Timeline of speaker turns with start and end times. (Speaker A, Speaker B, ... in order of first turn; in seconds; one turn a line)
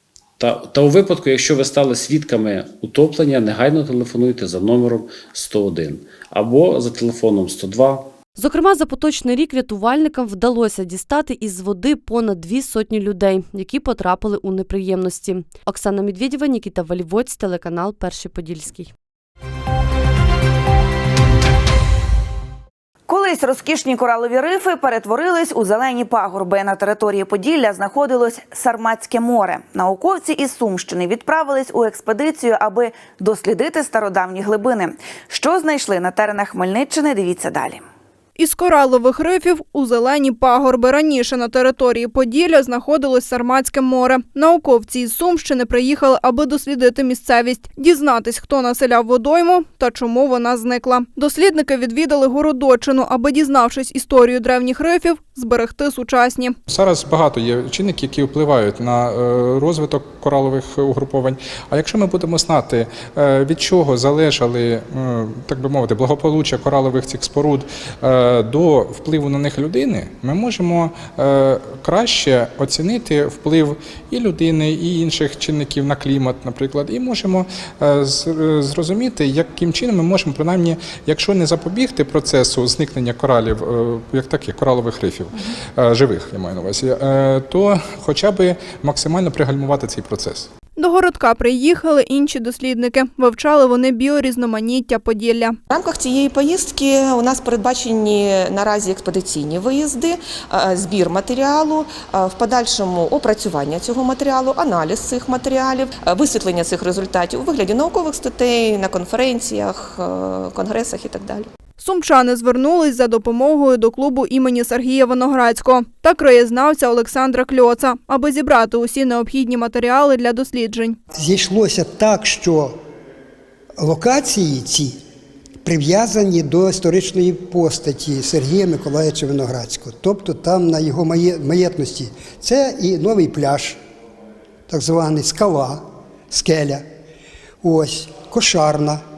Speaker A: 0.4-8.1
Speaker B: 8.4-18.9
Speaker C: 23.1-37.8
Speaker D: 38.4-56.5
Speaker E: 56.7-90.5
Speaker D: 90.8-95.5
Speaker F: 95.7-111.5
Speaker D: 111.8-120.9
Speaker G: 121.2-122.8
Speaker G: 123.8-125.0
Speaker G: 125.7-133.8
Speaker G: 134.7-136.8
Speaker G: 137.6-139.0